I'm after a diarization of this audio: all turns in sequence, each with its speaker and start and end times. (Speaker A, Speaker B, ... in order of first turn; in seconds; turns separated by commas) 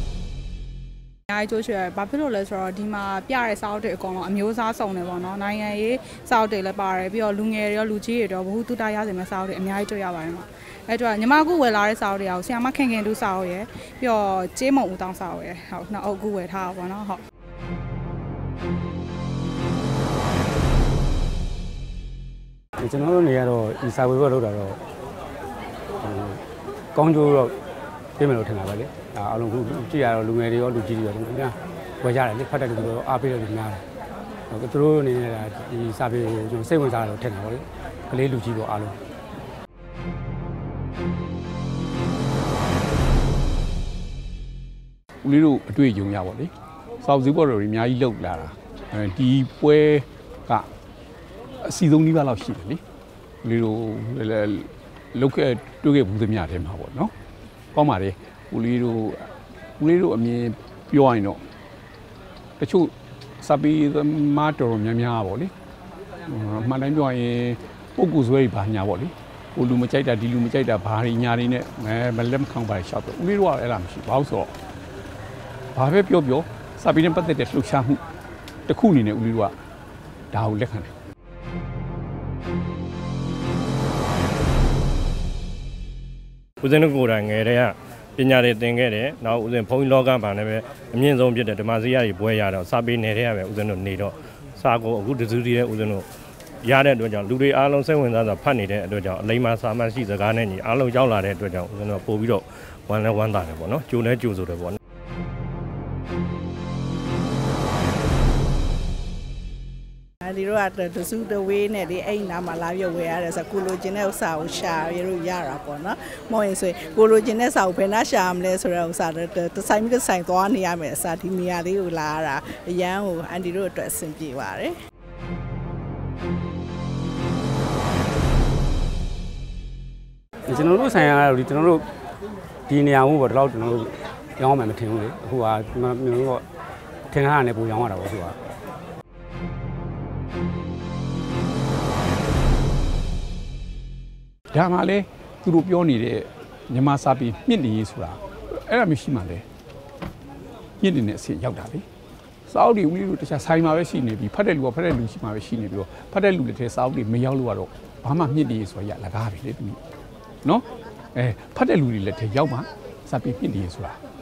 Speaker A: 1.3-17.2, Speaker B: 22.8-24.8, Speaker B: 26.0-26.4, Speaker B: 26.9-27.6, Speaker B: 28.2-33.8, Speaker B: 34.5-39.0, Speaker C: 45.2-50.7, Speaker C: 51.6-52.8, Speaker C: 53.4-57.1, Speaker C: 57.7-61.4, Speaker C: 62.6-65.5, Speaker C: 66.2-74.5, Speaker C: 75.7-78.0, Speaker C: 78.7-79.5, Speaker C: 80.3-80.9, Speaker D: 86.6-96.0, Speaker D: 96.6-104.8, Speaker E: 110.2-124.8, Speaker B: 130.4-131.8, Speaker B: 132.7-136.4, Speaker B: 137.1-138.4, Speaker C: 144.5-149.4, Speaker C: 150.8-151.8, Speaker C: 152.5-159.8, Speaker C: 160.4-164.0